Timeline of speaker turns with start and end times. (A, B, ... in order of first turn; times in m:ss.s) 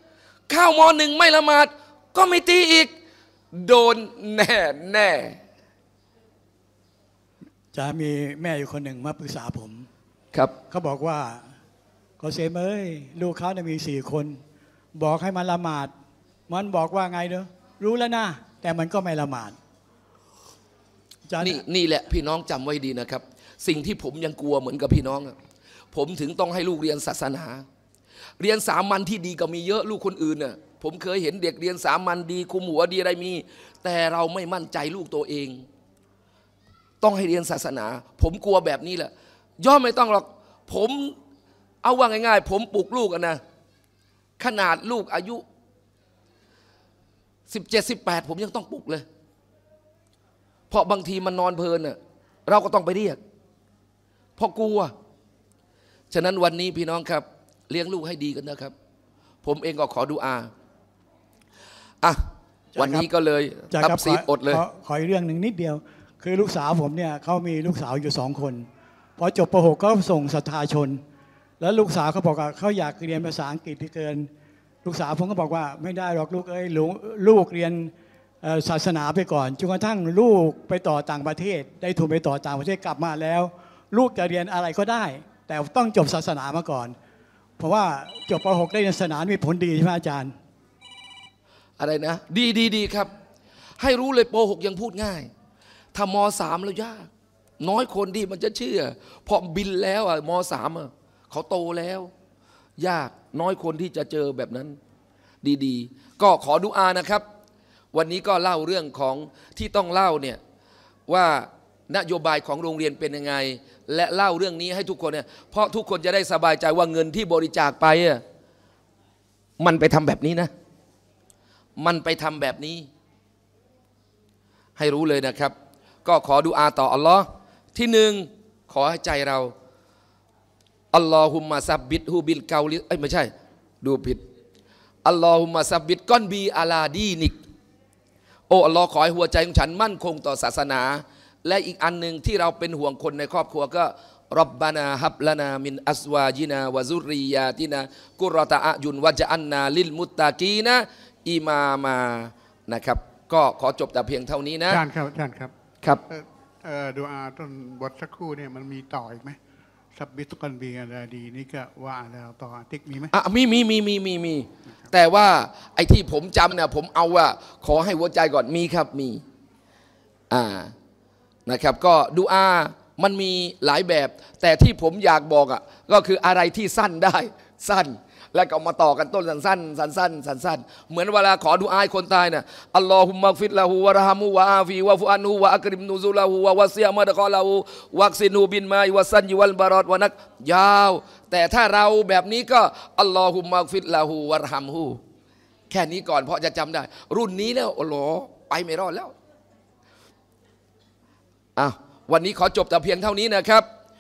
0:00.5-0:02.9 A
0:03.5-0:05.4 A
0:07.7-0:09.9 B
0:10.7-0:11.6 B
0:12.2-0:14.4 B
0:15.0-0:15.9 B
0:16.5-0:19.6 B
0:21.3-0:21.6 B
0:21.4-0:25.4 A
0:25.9-0:27.6 A
0:28.4-0:35.7 A
0:37.0-0:41.2 A
0:41.8-0:43.4 A
0:44.4-0:45.4 A
0:47.5-0:49.1 A
0:50.7-0:53.2 A
0:54.4-0:54.9 A
0:56.1-0:58.7 A
0:59.4-1:00.5 A
1:02.8-1:03.1 B
1:02.8-1:04.6 A
1:03.7-1:11.0 B
1:11.6-1:14.3 B
1:14.8-1:27.0 B
1:27.6-1:30.4 B
1:31.8-1:33.1 A
1:33.8-1:35.3 A
1:35.9-1:37.1 A
1:37.6-1:42.1 A
1:42.8-1:44.8 A
1:45.4-1:47.2 A
1:47.9-1:50.4 A
1:51.1-1:58.2 A
1:59.6-2:00.5 A
2:01.8-2:02.9 A
2:04.8-2:09.5 A
2:10.9-2:14.2 A
2:15.0-2:17.4 A
2:18.5-2:34.8 A
2:34.7-2:35.5 C
2:36.1-2:39.4 C
2:40.0-2:43.1 C
2:43.1-2:49.2 A
2:50.3-2:50.7 A
2:51.5-3:15.0 A
3:15.7-3:19.1 A
3:21.6-3:23.7 A